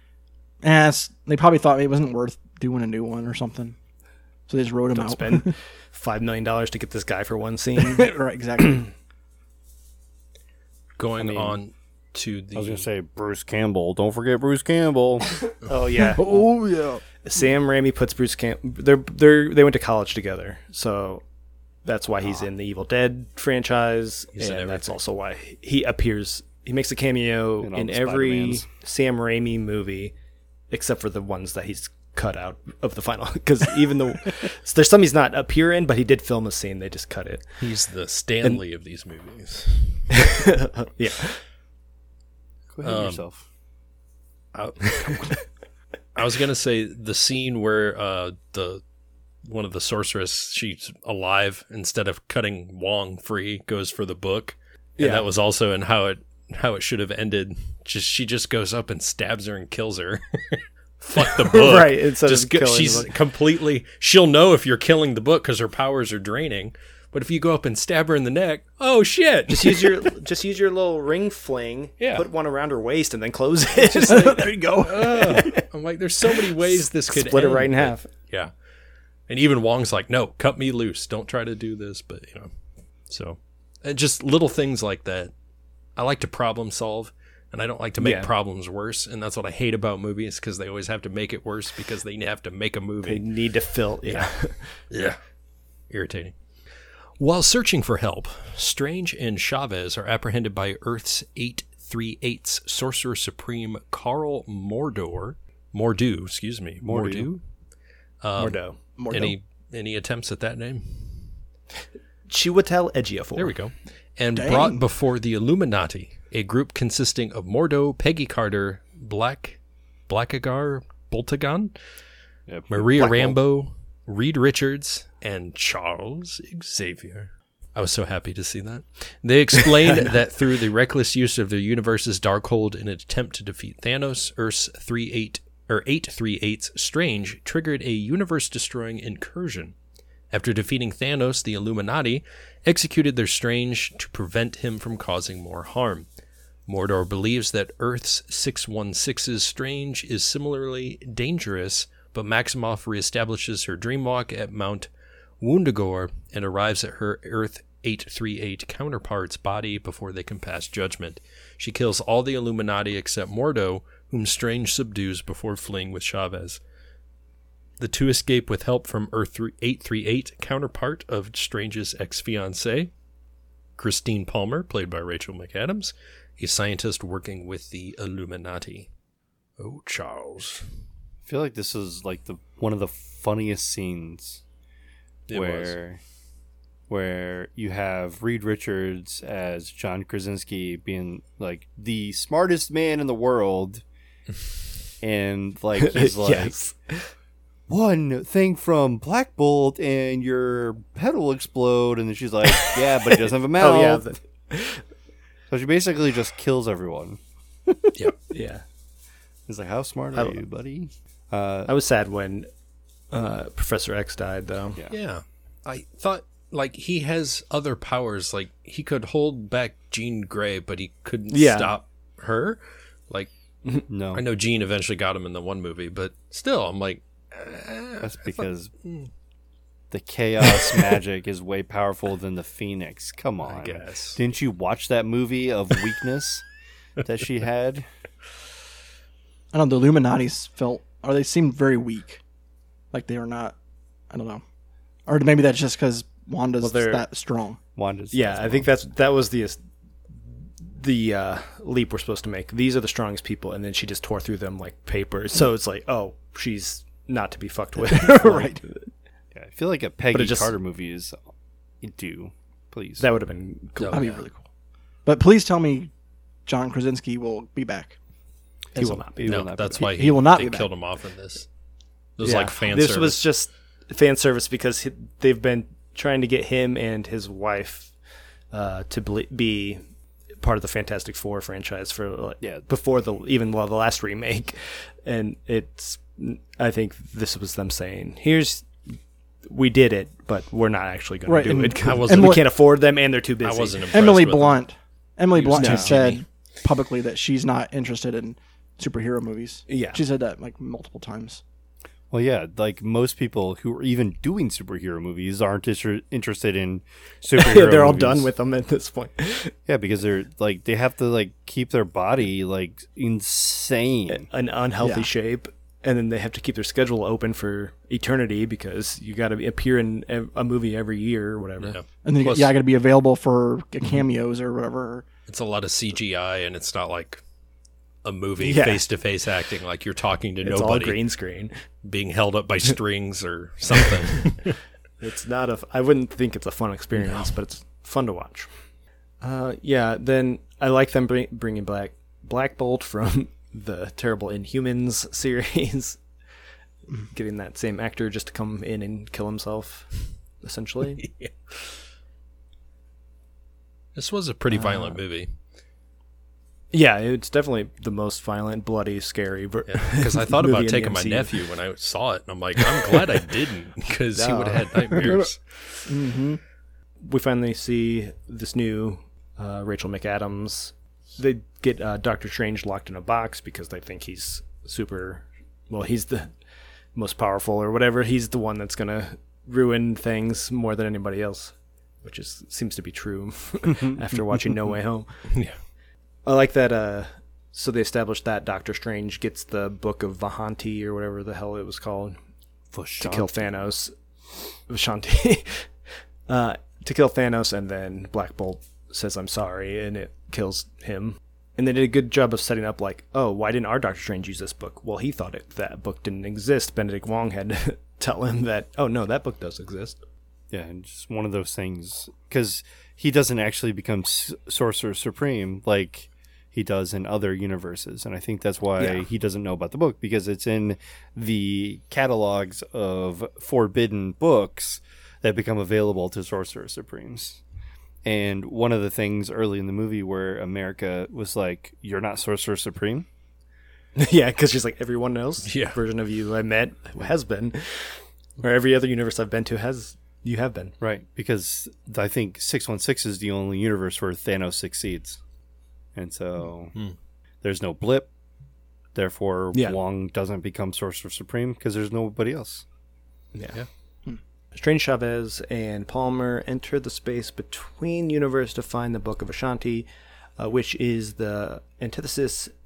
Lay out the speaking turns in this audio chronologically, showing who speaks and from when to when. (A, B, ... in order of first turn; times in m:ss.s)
0:00.6-0:03.8 A
0:04.5-0:05.5 A
0:04.9-0:08.9 B
0:07.8-0:08.9 A
0:11.0-0:12.9 C
0:11.2-0:11.6 B
0:12.6-0:15.4 D
0:15.6-0:16.3 B
0:16.2-0:17.0 A
0:17.2-0:21.2 B
0:21.8-0:30.1 B
0:24.4-0:25.0 C
0:27.6-0:28.7 D
0:30.7-0:37.7 B
0:37.6-0:40.2 C
0:40.1-0:41.4 B
0:42.7-0:43.4 D
0:42.8-0:43.2 C
0:44.5-0:45.4 C
0:44.9-0:45.4 B
0:46.2-0:48.8 C
0:49.4-1:10.1 C
0:55.0-0:55.3 B
1:01.2-1:03.1 B
1:09.5-1:14.7 B
1:12.0-1:12.3 C
1:14.1-1:15.6 A
1:14.8-1:18.5 C
1:16.7-1:18.1 B
1:19.3-1:22.5 C
1:23.1-1:25.3 C
1:26.0-1:33.3 C
1:28.0-1:28.3 B
1:33.0-1:34.8 B
1:34.0-1:35.2 C
1:35.9-1:36.3 C
1:37.2-1:47.4 C
1:46.8-1:47.3 D
1:48.2-1:51.3 C
1:48.4-1:49.0 B
1:49.0-1:49.4 A
1:52.3-1:53.6 B
1:53.4-2:01.7 C
1:54.4-1:54.8 A
2:02.5-2:03.4 D
2:02.7-2:19.8 C
2:20.3-2:26.1 C
2:26.7-2:34.9 C
2:35.4-2:46.6 C
2:47.8-2:52.9 C
2:53.8-2:58.9 C
2:59.6-3:00.7 C
3:01.3-3:04.4 D
3:05.3-3:05.8 C
3:05.3-3:06.0 D
3:06.9-3:13.8 D
3:15.0-3:16.5 D
3:15.8-3:17.1 B
3:17.7-3:24.1 D
3:22.6-3:24.8 B
3:25.5-3:27.2 D
3:28.3-3:28.6 B
3:29.5-3:31.7 D
3:31.7-3:32.5 B
3:33.1-3:34.8 B
3:34.9-3:43.3 C
3:41.3-3:41.8 B
3:43.9-3:44.2 D
3:44.1-3:49.1 C
3:48.0-3:48.7 D
3:49.9-3:56.4 D
3:53.4-3:54.2 C
3:57.0-3:57.9 D
3:59.5-4:02.2 A
4:02.9-4:03.6 A
4:04.1-4:04.4 A
4:05.1-4:07.6 A
4:06.6-4:07.0 B
4:07.8-4:08.7 D
4:08.1-4:09.7 B
4:10.2-4:18.9 B
4:17.9-4:18.6 A
4:19.3-4:23.1 D
4:20.1-4:20.5 B
4:23.0-4:24.2 B
4:23.8-4:24.2 C
4:23.9-4:24.4 A
4:25.0-4:25.9 A
4:26.5-4:28.0 A
4:28.8-4:29.9 D
4:28.8-4:29.0 A
4:28.8-4:29.4 B
4:29.2-4:31.5 C
4:29.8-4:30.7 A
4:32.2-4:33.2 C
4:32.2-4:38.0 B
4:38.5-4:39.9 B
4:40.4-4:53.9 B
4:42.4-4:42.7 D
4:51.3-4:52.4 A
4:51.8-4:52.6 C
4:53.4-4:54.6 C
4:53.9-5:01.4 A
4:55.4-4:56.2 C
4:55.5-4:56.1 B
4:59.7-5:00.0 B
5:02.1-5:08.3 D
5:07.4-5:09.5 B
5:09.7-5:14.3 D
5:14.1-5:21.8 B
5:14.8-5:15.1 A
5:21.6-5:22.5 C
5:22.0-5:25.0 A
5:25.3-5:27.2 C
5:28.0-5:31.0 C
5:28.4-5:28.9 B
5:30.4-5:31.6 B
5:31.8-5:34.6 C
5:35.0-5:38.5 B
5:37.0-5:37.3 C
5:39.2-5:46.0 B
5:47.1-5:51.1 B
5:51.0-5:51.8 C
5:54.0-5:55.3 C
5:54.6-5:54.9 A
5:56.7-6:01.4 B
5:59.7-6:06.0 C
6:04.2-6:05.2 B
6:05.0-6:05.3 A
6:05.9-6:06.4 A
6:07.0-6:25.4 B
6:25.3-6:25.6 C
6:26.2-6:32.2 B
6:32.7-6:33.5 D
6:33.0-6:33.9 B
6:34.7-6:50.0 B
6:50.5-7:07.4 D
6:58.8-6:59.0 B
7:08.0-7:13.1 D
7:14.0-7:20.8 B
7:15.4-7:15.8 C
7:20.8-7:25.2 D
7:26.0-7:26.8 D
7:27.4-7:28.1 D
7:29.0-7:32.6 D
7:33.3-7:33.6 B
7:34.5-7:42.5 B